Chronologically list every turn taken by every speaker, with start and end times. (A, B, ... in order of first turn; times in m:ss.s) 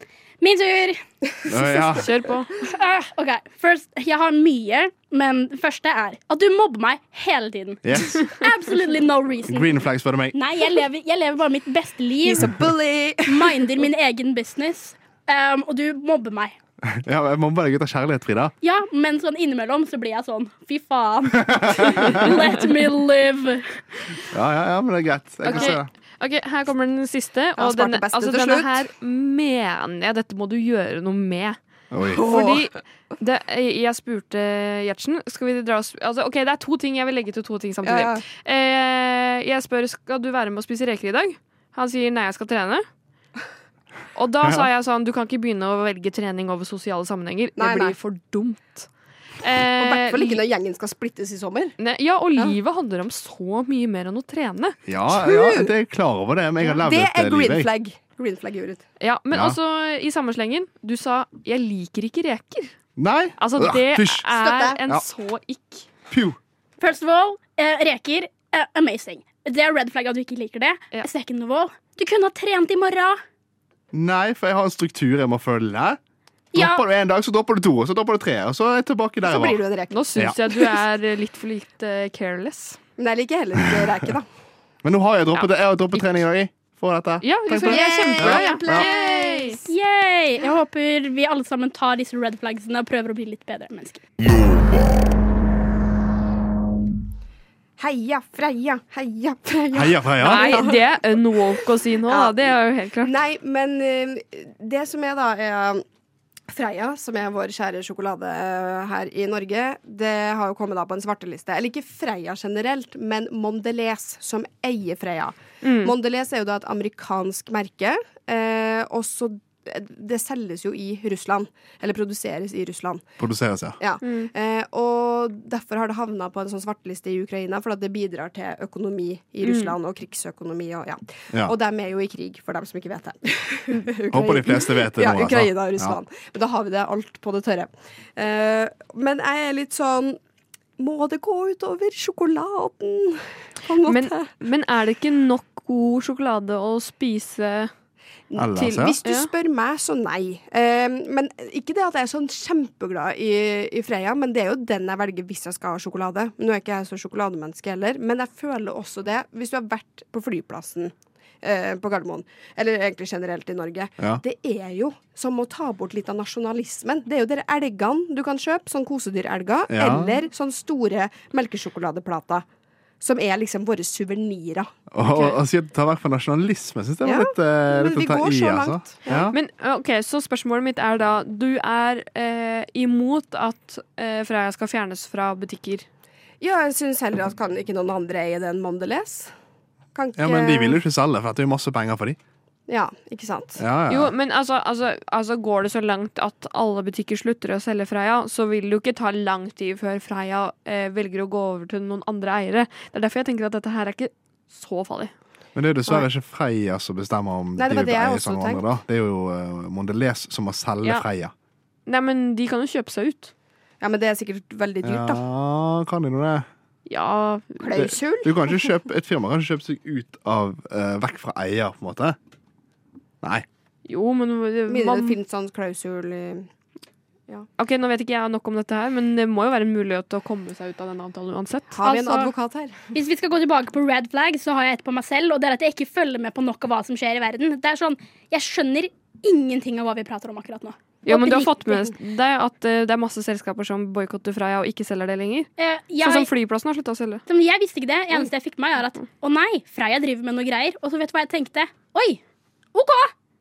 0:00.4-0:01.9 A
0:01.5-0:02.1 B
0:02.0-0:02.5 C
0:02.6-0:09.8 A
0:07.8-0:08.3 B
0:09.5-0:10.3 B
0:10.3-0:12.5 A
0:12.2-0:13.7 D
0:13.3-0:16.5 A
0:16.8-0:18.5 B
0:18.6-0:23.8 A
0:21.4-0:22.4 B
0:24.3-0:25.9 B
0:25.5-0:31.6 C
0:27.6-0:28.8 D
0:31.9-0:32.2 B
0:32.1-0:32.6 D
0:32.2-0:42.8 C
0:37.8-0:38.2 D
0:44.1-0:48.9 C
0:44.4-0:44.7 B
0:47.6-0:47.9 D
0:49.4-0:50.4 C
0:49.8-0:51.8 D
0:51.8-0:54.8 C
0:54.9-0:57.7 B
0:55.1-0:55.7 D
0:56.6-0:58.8 D
0:59.0-1:02.7 C
0:59.3-0:59.6 B
1:03.0-1:04.2 B
1:03.4-1:05.9 C
1:04.3-1:04.8 D
1:06.1-1:06.4 B
1:06.8-1:13.2 A
1:13.9-1:16.0 B
1:16.5-1:16.8 A
1:16.5-1:19.6 B
1:19.2-1:20.8 D
1:19.9-1:22.8 C
1:23.0-1:24.2 D
1:24.8-1:28.9 B
1:25.3-1:26.0 C
1:27.2-1:29.6 C
1:27.6-1:29.6 D
1:29.6-1:34.0 A
1:37.8-1:41.0 D
1:39.7-1:40.6 B
1:40.2-1:43.1 C
1:42.1-1:45.8 D
1:46.5-2:03.0 D
1:55.6-1:55.9 C
2:03.2-2:03.8 B
2:03.8-2:20.2 D
2:04.0-2:04.3 C
2:09.4-2:09.7 C
2:14.1-2:16.0 B
2:20.8-2:24.3 D
2:23.8-2:27.7 C
2:28.3-2:52.4 D
2:28.4-2:29.0 B
2:29.0-2:29.3 C
2:49.7-2:50.2 B
2:53.0-2:54.7 D
2:54.9-2:59.4 B
2:55.1-2:55.4 C
2:57.0-2:59.3 D
2:59.3-3:05.9 C
3:06.4-3:09.3 D
3:09.9-3:10.8 D
3:10.2-3:12.2 B
3:12.7-3:13.6 D
3:13.6-3:14.1 B
3:13.9-3:25.1 C
3:25.5-3:31.3 B
3:27.6-3:28.6 D
3:31.9-3:33.3 C
3:33.8-3:35.2 D
3:34.8-3:36.4 B
3:36.9-3:37.9 C
3:37.6-3:38.7 D
3:37.7-3:42.2 B
3:43.8-3:45.2 C
3:44.7-3:46.5 D
3:47.6-3:52.3 C
3:51.7-3:52.7 D
3:52.9-4:01.8 A
4:01.0-4:05.5 C
4:05.6-4:06.3 A
4:06.0-4:07.2 C
4:07.3-4:12.2 A
4:12.7-4:13.1 A